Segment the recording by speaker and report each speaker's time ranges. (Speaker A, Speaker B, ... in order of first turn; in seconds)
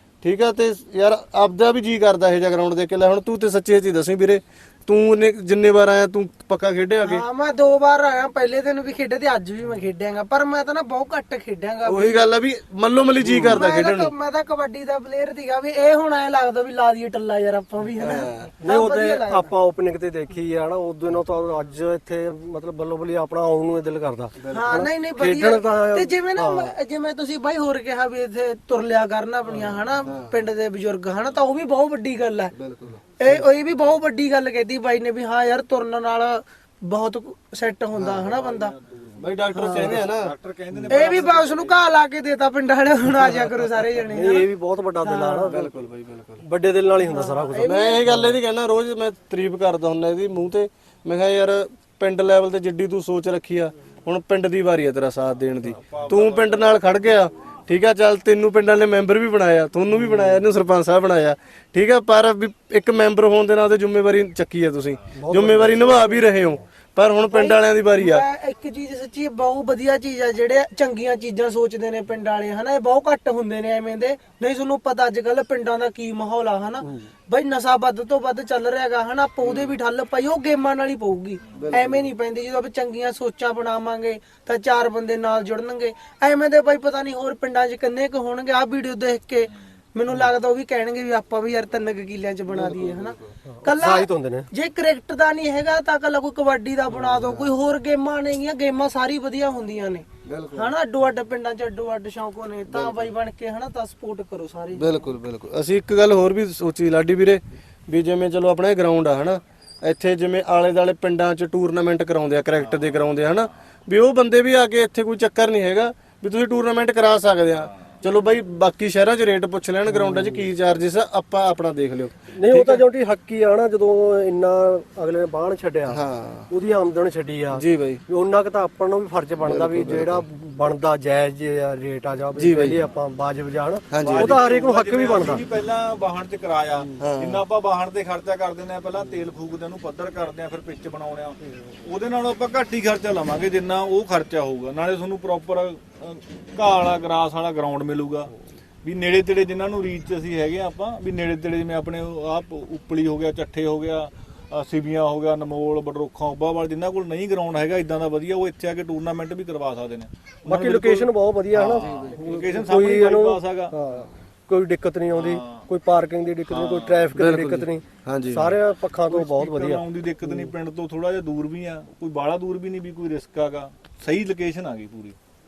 Speaker A: 0.2-7.2, 11.8-14.1, 18.0-18.5, 30.1-30.4, 32.5-33.1, 37.9-38.3, 39.2-40.3, 45.5-46.4, 47.6-68.2, 79.4-79.7, 81.5-82.1, 92.5-93.3, 97.2-97.5, 100.2-100.7, 102.7-103.1, 104.7-122.8, 125.9-126.5, 127.5-128.0, 129.4-130.2, 132.4-132.8, 133.9-134.3, 137.0-137.4, 161.5-162.2, 167.1-168.6
Speaker B: 7.0-12.2, 13.5-19.5, 24.5-32.5, 33.2-38.7, 39.5-40.0, 40.9-44.5, 45.0-45.5, 47.0-48.0, 67.3-105.0
Speaker C: 13.2-13.6, 18.6-26.7, 44.0-45.7, 46.4-48.4, 65.2-66.2, 93.5-94.5, 119.9-120.5, 122.3-135.4, 160.5-170.5
Speaker D: 38.3-41.8, 55.7-56.7, 134.0-148.3, 148.8-161.1, 161.7-163.8, 165.1-165.7, 166.5-167.1, 169.0-175.2